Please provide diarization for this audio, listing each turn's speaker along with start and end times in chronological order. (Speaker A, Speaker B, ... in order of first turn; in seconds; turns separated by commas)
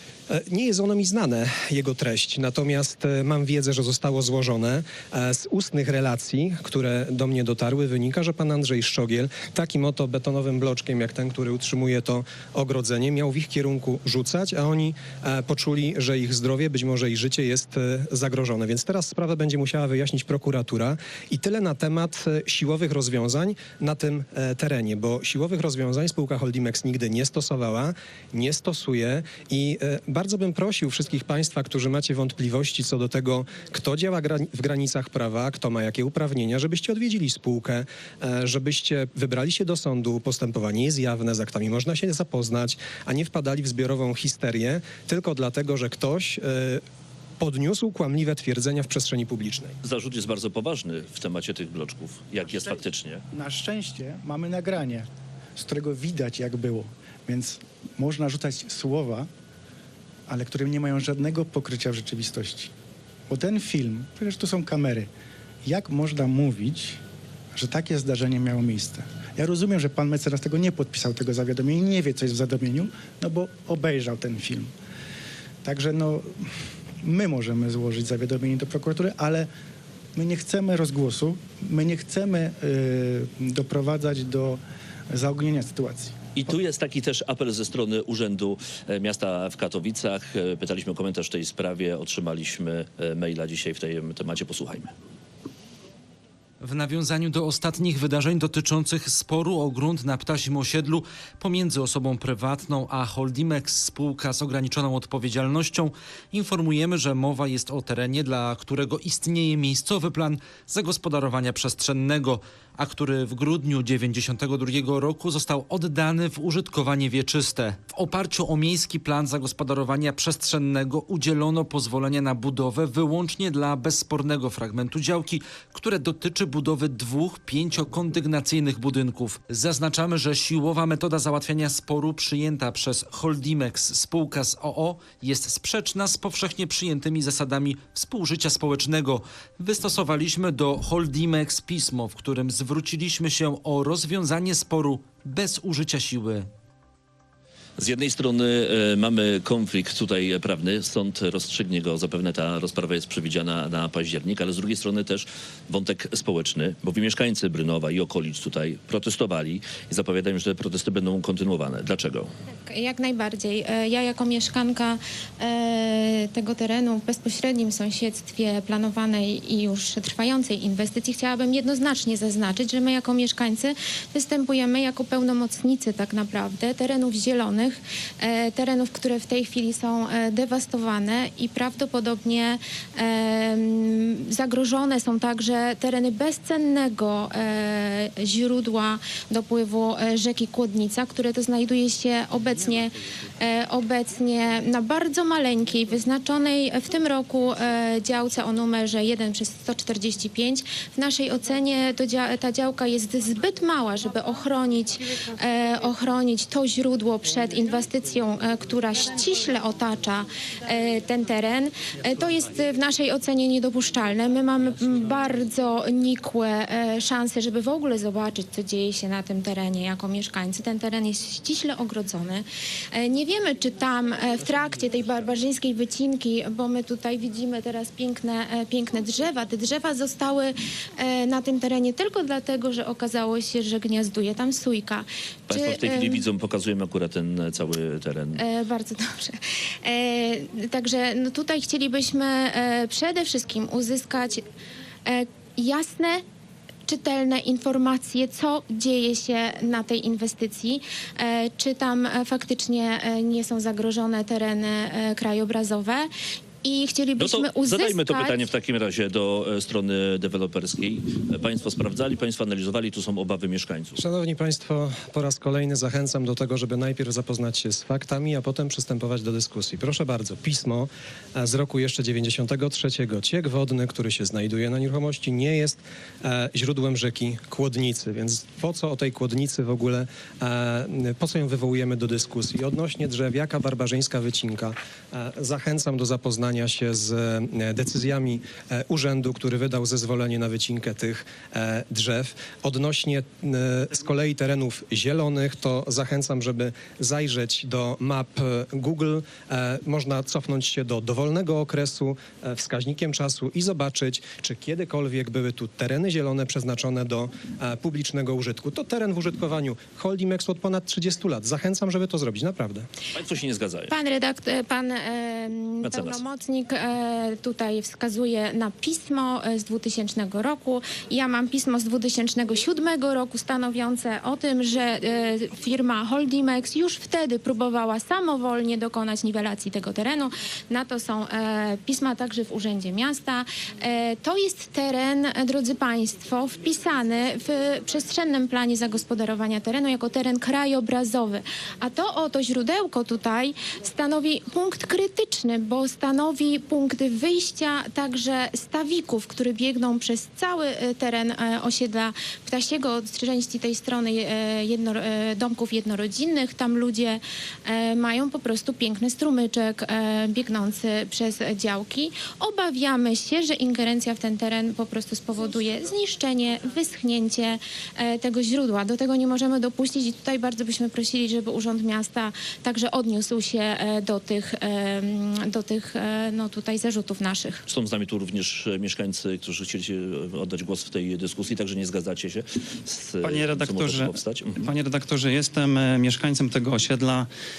Speaker A: 0.3-46.8, Speaker A: 47.4-49.7, Speaker B: 49.8-53.2, Speaker C: 53.3-59.3, Speaker C: 60.3-62.7, Speaker C: 63.3-65.1, Speaker C: 65.6-67.0, Speaker C: 67.5-74.7, Speaker C: 75.6-76.5, Speaker C: 77.0-79.5, Speaker C: 80.2-86.5, Speaker B: 86.4-94.9, Speaker D: 96.6-146.5, Speaker B: 147.8-162.3, Speaker E: 162.7-236.2, Speaker B: 235.5-238.4, Speaker E: 238.4-244.4, Speaker E: 245.1-246.2, Speaker E: 246.9-256.1, Speaker E: 256.6-258.4, Speaker B: 257.2-264.0, Speaker A: 264.0-312.9, Speaker B: 313.1-313.9, Speaker E: 313.9-377.6, Speaker B: 315.8-316.2, Speaker B: 377.7-384.7, Speaker F: 383.2-387.3